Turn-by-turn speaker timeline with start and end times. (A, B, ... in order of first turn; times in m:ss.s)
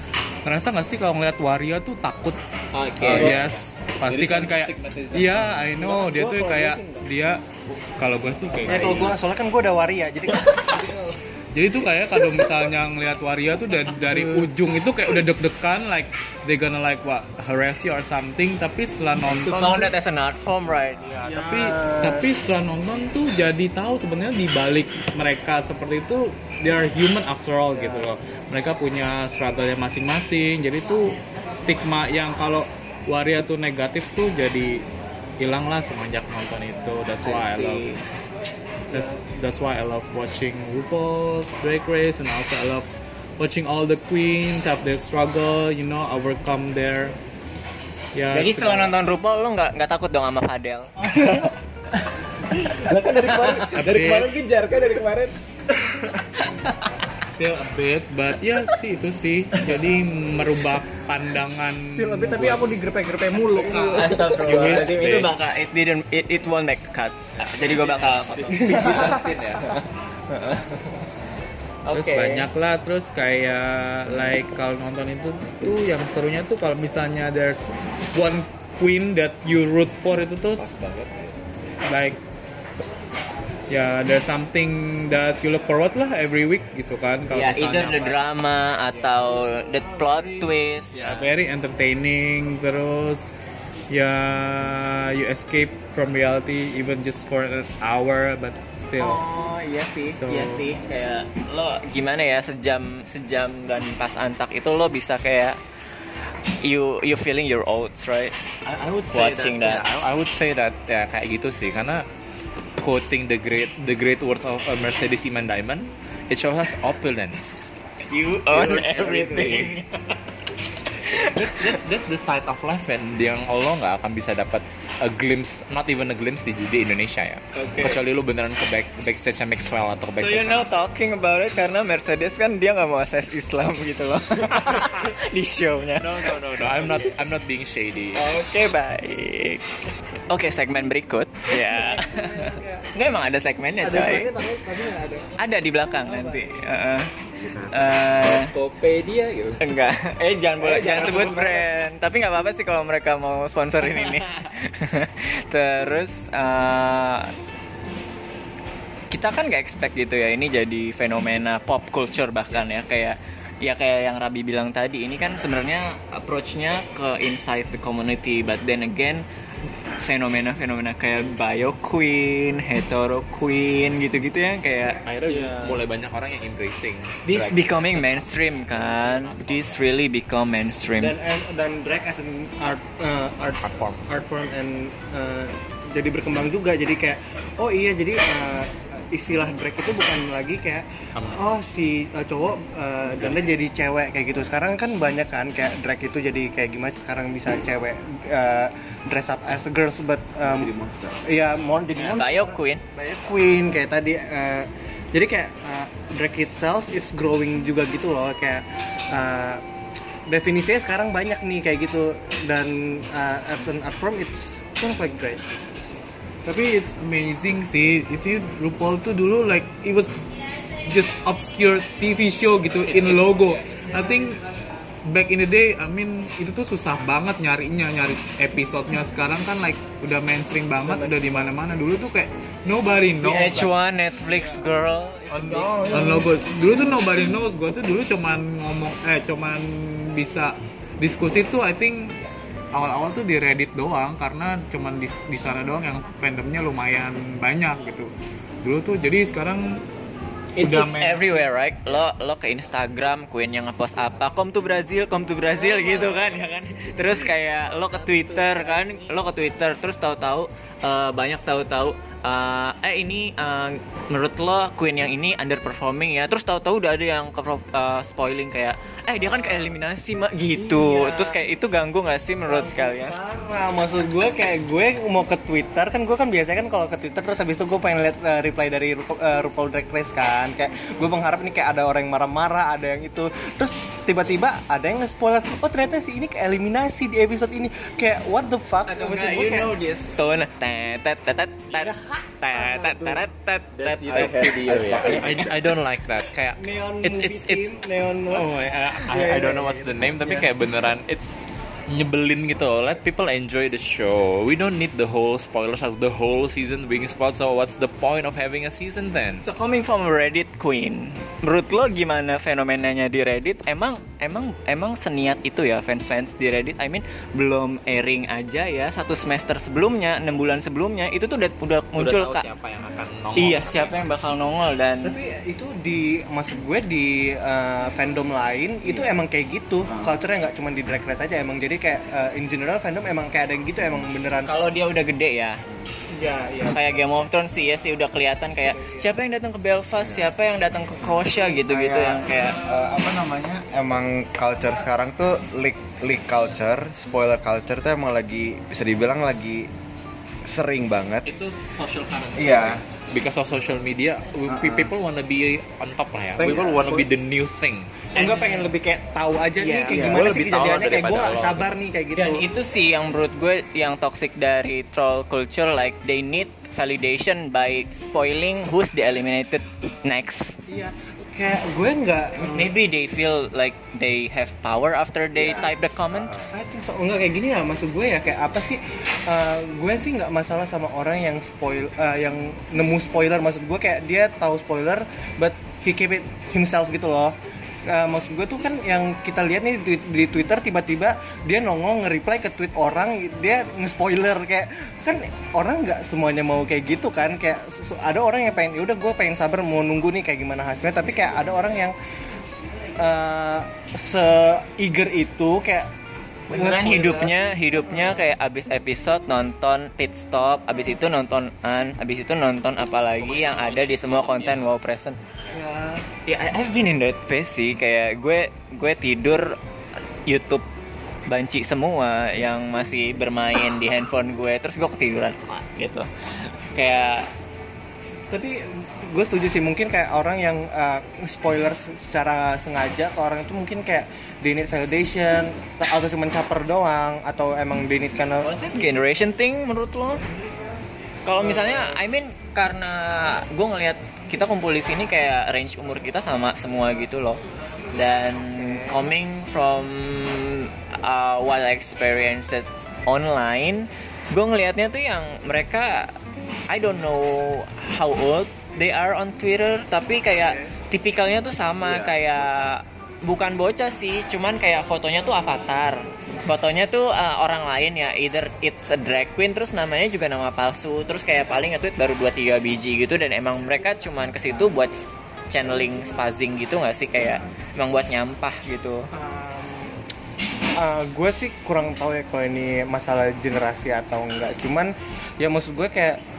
0:00.4-0:02.4 A
0:02.7-0:05.6 B
0:03.0-0:07.4 A
0:03.0-0:03.4 C
0:05.8-0:07.0 C
0:08.0-0:09.2 A
0:08.5-0:09.2 B
0:08.7-0:11.2 C
0:11.5-0:19.9 A
0:19.3-0:21.0 D
0:21.0-0:34.8 A
0:21.2-0:22.3 C
0:27.7-0:28.1 C
0:35.4-0:38.0 A
0:37.2-0:38.0 D
0:38.9-0:42.9 A
0:43.4-0:47.2 A
0:48.2-0:48.9 A
0:48.3-0:50.9 D
0:51.1-0:51.5 E
0:52.6-0:55.4 E
0:53.7-0:54.3 A
0:55.8-0:57.0 D
0:57.4-1:02.8 A
1:01.9-1:04.8 C
1:03.6-1:09.2 D
1:04.4-1:05.3 A
1:07.6-1:09.8 B
1:08.6-1:09.3 C
1:10.3-1:10.8 D
1:11.8-1:12.5 D
1:11.9-1:20.7 A
1:20.6-1:21.2 E
1:21.9-1:22.2 A
1:23.7-1:28.2 A
1:27.3-1:31.3 D
1:29.8-1:30.5 C
1:31.0-1:33.4 A
1:33.9-1:39.2 A
1:39.0-1:45.6 D
1:40.2-1:40.7 A
1:46.6-1:48.4 D
1:48.7-1:52.0 B
1:49.1-1:49.8 D
1:52.8-1:57.7 B
1:58.1-2:00.2 D
1:58.6-1:59.6 E
1:58.6-1:59.7 B
2:01.0-2:01.7 D
2:01.1-2:10.7 B
2:07.6-2:08.0 D
2:10.1-2:16.4 D
2:16.0-2:18.2 B
2:18.2-2:19.8 D
2:20.3-2:24.3 D
2:21.5-2:22.9 C
2:23.8-2:25.4 C
2:25.4-2:27.1 D
2:26.1-2:26.6 C
2:27.4-2:27.9 E
2:27.7-2:28.5 D
2:28.2-2:29.6 B
2:29.6-2:37.3 D
2:30.6-2:31.6 C
2:30.7-2:31.4 E
2:34.0-2:34.2 B
2:39.1-2:49.2 D
2:50.0-2:55.0 D
2:55.0-3:00.0 B
2:55.2-2:55.8 C
2:57.3-3:01.2 D
3:01.0-3:20.7 C
3:03.6-3:04.1 B
3:11.2-3:11.4 B
3:20.4-3:21.2 E
3:21.2-3:29.6 C
3:22.0-3:22.8 D
3:30.3-3:36.0 C
3:36.5-3:44.4 A
3:42.9-3:43.6 B
3:45.0-3:53.7 A
3:50.8-3:51.4 C
3:53.2-3:56.3 D
3:55.3-4:02.2 A
3:55.4-3:56.3 C
4:02.7-4:08.1 A
4:08.6-4:09.8 A
4:10.6-4:33.2 D
4:10.6-4:11.3 A
4:15.6-4:16.1 C
4:18.1-4:18.4 A
4:29.2-4:29.7 C
4:30.5-4:31.4 C
4:32.4-4:49.8 C
4:48.9-4:54.6 D
4:51.7-4:53.2 C
4:53.8-5:01.4 B
4:54.1-4:55.5 E
4:56.6-5:00.5 C
5:01.9-5:09.5 B
5:09.4-5:22.5 D
5:22.0-5:24.2 B
5:23.4-5:25.2 D
5:25.0-5:34.5 C
5:34.4-5:35.6 D
5:36.1-5:36.9 C
5:36.6-5:42.6 D
5:38.6-5:39.1 C
5:40.0-5:40.3 E
5:41.7-5:49.7 E
5:50.4-5:51.3 E
5:51.3-5:58.1 B
5:52.4-5:52.8 E
5:54.5-5:54.9 E
5:56.4-5:57.0 E
5:56.4-5:57.0 C
5:58.2-6:02.4 C
5:58.2-5:58.7 D
5:59.6-5:59.9 D
5:59.6-6:01.8 B
5:59.9-6:01.1 E
6:02.1-6:10.6 D
6:10.7-6:12.7 C
6:12.4-6:16.4 D
6:15.4-6:16.6 E
6:16.5-6:27.4 C
6:27.9-6:42.0 C
6:43.0-6:45.9 C
6:46.5-6:55.2 D
6:46.5-6:47.3 C
6:53.2-6:54.7 B
6:55.5-6:56.0 C
6:56.3-6:59.6 D
7:00.3-7:00.7 D
7:01.3-7:07.3 D
7:08.3-7:18.5 C
7:18.4-7:20.2 D
7:21.2-7:27.4 D
7:21.4-7:22.0 C
7:27.9-7:36.2 D
7:36.7-7:54.9 D
7:40.4-7:40.7 C
7:41.8-7:42.2 E
7:55.5-7:59.1 D
7:59.1-7:59.9 C
8:00.8-8:06.2 C